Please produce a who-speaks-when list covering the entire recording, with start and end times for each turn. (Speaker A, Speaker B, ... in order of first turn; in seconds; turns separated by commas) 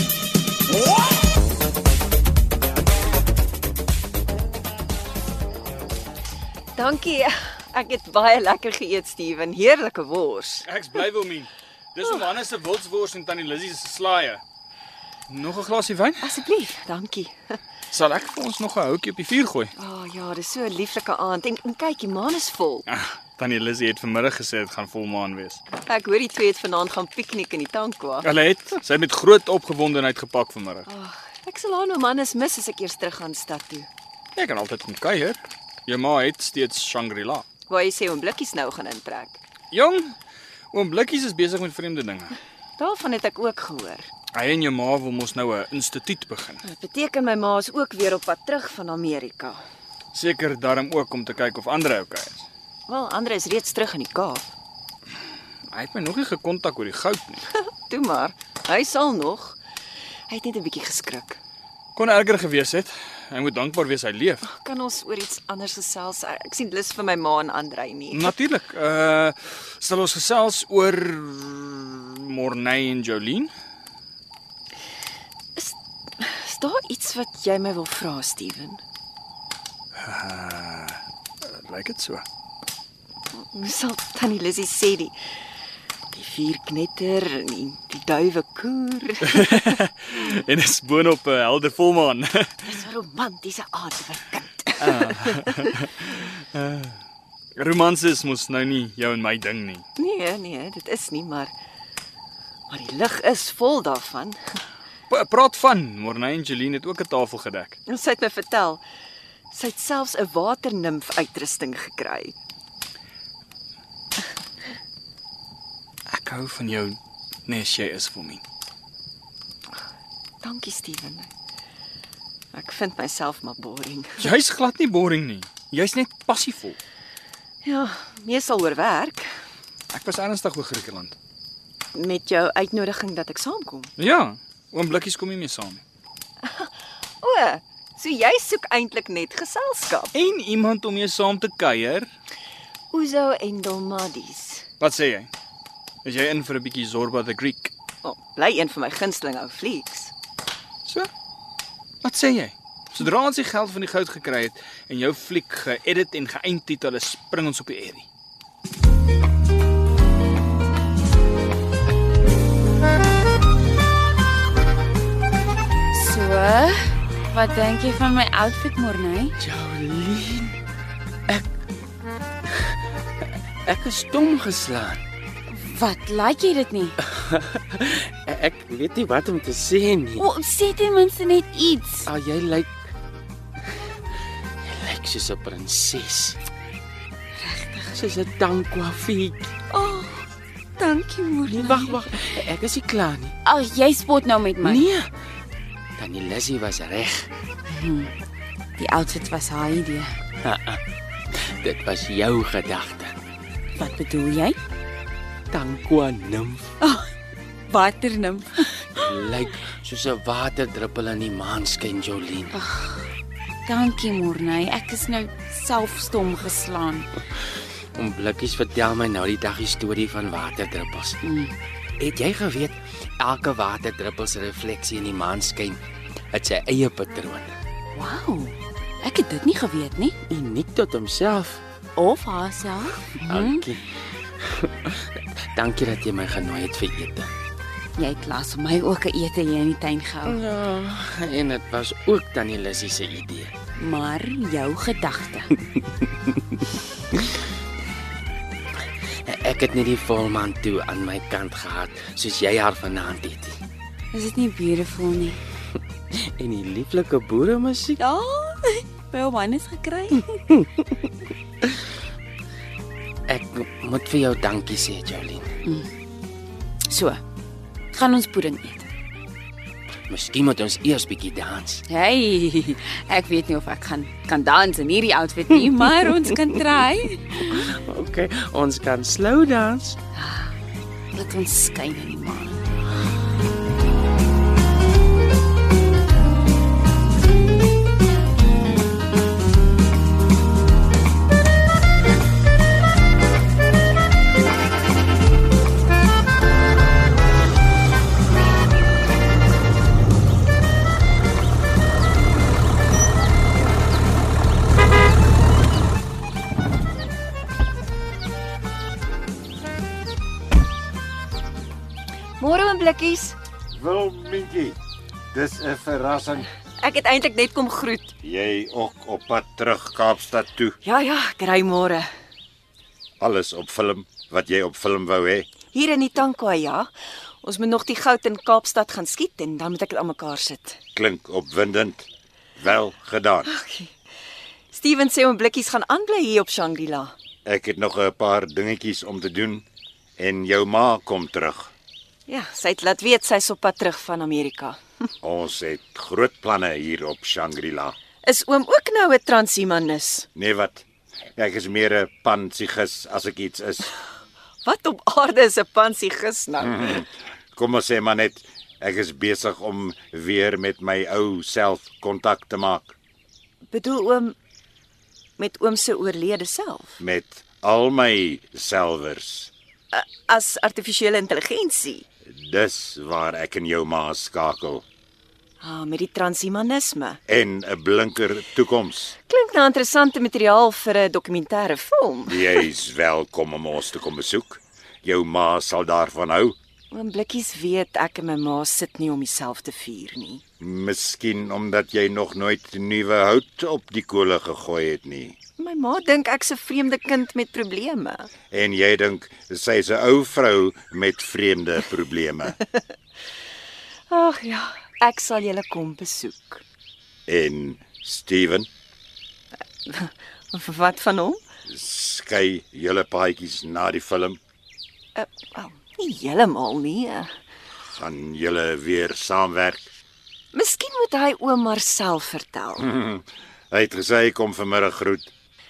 Speaker A: 6.8-10.7, Speaker B: 10.7-14.4, Speaker B: 15.3-16.4, Speaker A: 16.2-17.4, Speaker B: 17.9-19.7, Speaker A: 19.8-22.8, Speaker B: 22.9-25.6, Speaker A: 25.8-28.3, Speaker B: 28.2-30.9, Speaker A: 30.9-33.9, Speaker B: 34.4-37.4, Speaker A: 37.7-39.4, Speaker B: 39.7-40.1, Speaker B: 40.7-42.4, Speaker A: 42.8-44.1, Speaker B: 44.3-46.6, Speaker A: 46.6-49.6, Speaker B: 50.1-52.5, Speaker A: 52.9-54.5, Speaker B: 55.7-57.4, Speaker A: 57.5-59.6, Speaker A: 60.3-61.4, Speaker B: 62.0-64.4, Speaker A: 64.4-68.3, Speaker B: 68.1-73.5, Speaker A: 75.5-78.8, Speaker B: 80.0-82.2, Speaker A: 83.3-85.2, Speaker A: 86.1-89.7, Speaker B: 89.3-92.7, Speaker A: 92.7-95.7, Speaker B: 94.8-97.0, Speaker B: 97.6-99.8, Speaker A: 100.0-101.5, Speaker A: 102.7-104.4, Speaker B: 105.1-107.8, Speaker A: 107.9-108.8, Speaker A: 109.5-112.3, Speaker B: 116.1-118.4, Speaker A: 120.4-121.3, Speaker A: 122.5-124.3, Speaker B: 124.2-126.8, Speaker A: 127.6-129.3, Speaker B: 129.9-131.2, Speaker A: 131.9-133.9, Speaker B: 134.0-135.8, Speaker A: 136.4-140.1, Speaker B: 140.1-142.1, Speaker A: 142.9-144.6, Speaker B: 144.8-145.3, Speaker B: 146.0-147.7, Speaker A: 148.0-150.1, Speaker B: 152.0-158.1, Speaker C: 165.9-169.3, Speaker D: 169.4-170.6, Speaker D: 172.6-175.0, Speaker C: 175.5-177.0, Speaker D: 177.0-180.3, Speaker C: 180.2-182.1, Speaker D: 182.1-182.8, Speaker D: 184.6-186.4, Speaker C: 187.4-187.9, Speaker D: 187.9-189.5, Speaker A: 189.7-190.1, Speaker C: 190.8-192.1, Speaker D: 191.5-193.3, Speaker C: 193.4-194.8, Speaker D: 194.6-195.1, Speaker D: 196.0-197.3, Speaker C: 197.7-198.1, Speaker C: 198.8-200.2, Speaker D: 200.4-200.8, Speaker D: 201.3-203.1, Speaker C: 203.8-204.6, Speaker D: 205.5-206.7, Speaker C: 206.8-207.1, Speaker C: 207.7-209.1, Speaker D: 208.9-212.5, Speaker C: 212.5-213.1, Speaker C: 213.7-217.1, Speaker D: 217.9-221.2, Speaker C: 221.2-221.5, Speaker D: 222.0-225.8, Speaker D: 226.3-227.5, Speaker C: 227.9-230.2, Speaker D: 230.3-231.6, Speaker C: 231.9-233.6, Speaker D: 233.2-237.3, Speaker C: 238.0-240.4, Speaker D: 240.2-243.5, Speaker C: 243.8-245.5, Speaker D: 248.8-253.6, Speaker C: 254.1-255.4, Speaker D: 256.1-258.0, Speaker C: 258.0-260.3, Speaker D: 263.3-265.5, Speaker C: 265.6-265.9, Speaker C: 266.9-267.2, Speaker C: 267.9-268.9, Speaker D: 270.1-271.8, Speaker C: 271.9-277.6, Speaker D: 277.4-280.0, Speaker C: 280.1-280.5, Speaker C: 281.1-282.7, Speaker A: 312.4-313.4, Speaker E: 313.8-314.8, Speaker E: 315.3-316.5, Speaker A: 316.8-318.1, Speaker E: 318.2-320.8, Speaker A: 320.8-322.1, Speaker E: 323.2-325.5, Speaker A: 325.7-326.9, Speaker A: 327.4-330.8, Speaker E: 330.9-332.1, Speaker E: 332.6-333.5, Speaker A: 333.5-333.9, Speaker A: 334.7-337.1, Speaker E: 337.4-339.6, Speaker E: 340.2-341.7, Speaker A: 342.3-344.8, Speaker E: 345.2-347.9, Speaker A: 348.2-350.3, Speaker E: 350.3-350.8, Speaker E: 351.4-353.9, Speaker A: 354.6-357.1, Speaker E: 356.6-362.9, Speaker A: 363.7-364.3, Speaker A: 365.4-367.0, Speaker E: 367.0-369.5, Speaker A: 369.9-372.0, Speaker E: 372.3-374.8, Speaker A: 375.6-377.2, Speaker E: 377.3-379.2, Speaker A: 379.3-382.6, Speaker E: 382.3-386.5, Speaker A: 386.9-390.4, Speaker E: 390.6-395.4, Speaker A: 395.6-398.3, Speaker E: 398.5-402.6, Speaker A: 404.1-406.6, Speaker E: 407.3-408.7, Speaker A: 409.9-411.4, Speaker E: 411.7-414.4, Speaker A: 415.1-417.3, Speaker E: 417.8-419.9, Speaker A: 420.5-422.9, Speaker E: 422.8-425.3